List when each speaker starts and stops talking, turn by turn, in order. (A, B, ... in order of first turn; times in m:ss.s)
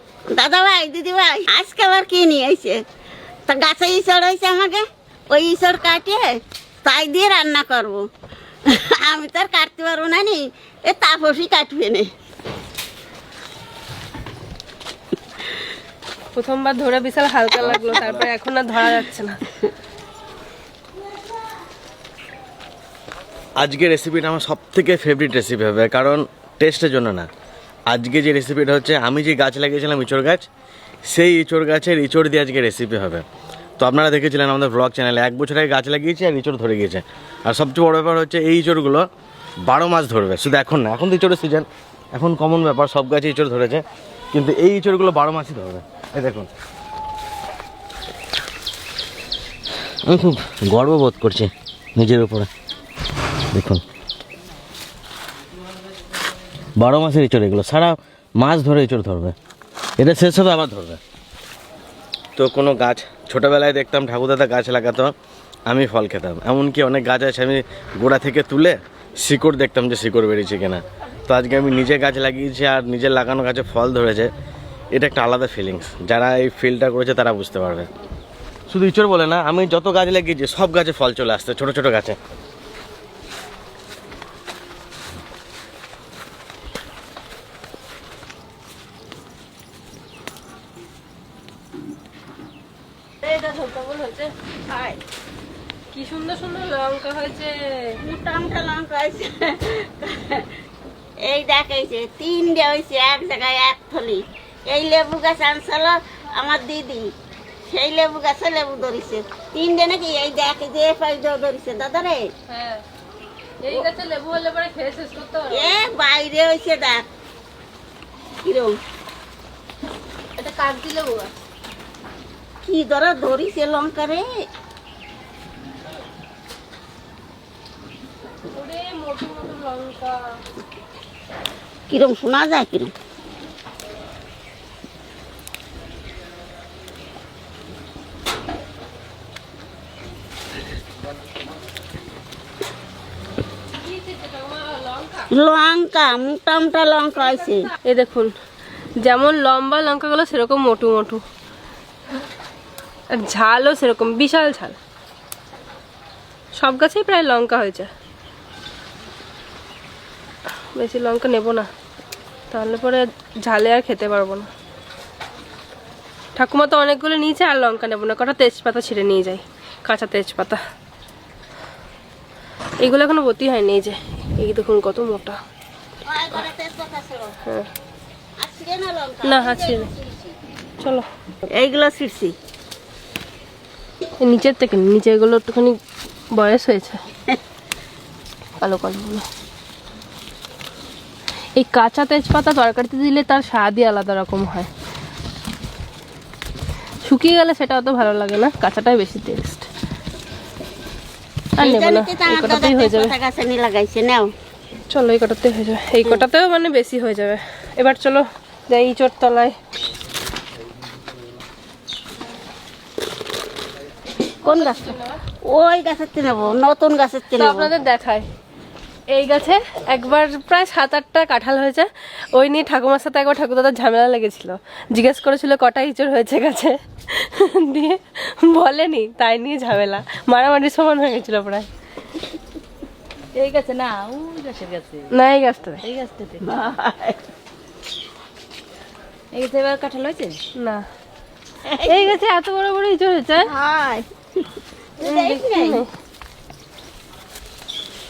0:00.3-0:02.8 A
0:03.5-0:08.0 A
0:08.7-0:12.1 A
0:16.4-0:19.4 B
0:17.7-0:18.2 C
0:23.6-0:27.3 C
0:27.9-0:30.5 C
0:31.1-0:33.2 C
0:33.8-0:39.0 C
0:39.7-0:46.5 C
0:50.1-0:52.5 C
0:53.5-0:53.8 C
0:56.8-0:59.4 C
1:00.0-1:01.0 C
1:02.4-1:05.1 C
1:05.7-1:14.3 C
1:15.0-1:17.9 C
1:18.7-1:22.2 C
1:33.2-1:34.3 B
1:34.7-1:35.0 A
1:35.9-1:37.9 B
1:38.0-1:40.5 A
1:41.2-1:47.1 A
1:47.7-1:52.3 A
1:52.5-1:52.8 B
1:53.6-1:55.8 B
1:55.5-1:57.0 A
1:58.4-1:58.8 A
2:00.4-2:01.3 B
2:02.6-2:04.3 A
2:08.5-2:10.3 B
2:11.9-2:12.9 A
2:23.8-2:25.3 B
2:25.3-2:27.7 A
2:27.8-2:28.3 B
2:29.0-2:31.2 B
2:33.1-2:34.8 B
2:36.6-2:37.9 B
2:40.8-2:41.7 B
2:42.5-2:44.5 B
2:46.4-2:50.6 B
2:52.8-2:55.4 B
2:56.0-2:57.4 A
2:58.4-3:00.4 A
2:59.2-2:59.9 B
3:00.8-3:01.1 B
3:01.5-3:02.4 A
3:04.2-3:05.8 B
3:06.3-3:07.0 B
3:08.6-3:09.3 B
3:11.6-3:14.7 B
3:17.0-3:19.7 B
3:21.6-3:24.3 A
3:21.6-3:23.2 B
3:24.9-3:29.6 B
3:34.4-3:37.7 A
3:34.5-3:35.2 B
3:37.4-3:38.3 B
3:39.1-3:51.7 B
3:53.3-3:55.1 D
3:55.1-3:55.9 B
3:55.8-3:56.4 D
3:56.4-3:57.2 A
3:59.3-4:00.4 D
4:00.6-4:00.8 B
4:01.7-4:02.1 A
4:01.8-4:03.5 B
4:03.4-4:04.1 A
4:05.0-4:05.8 A
4:05.0-4:05.9 B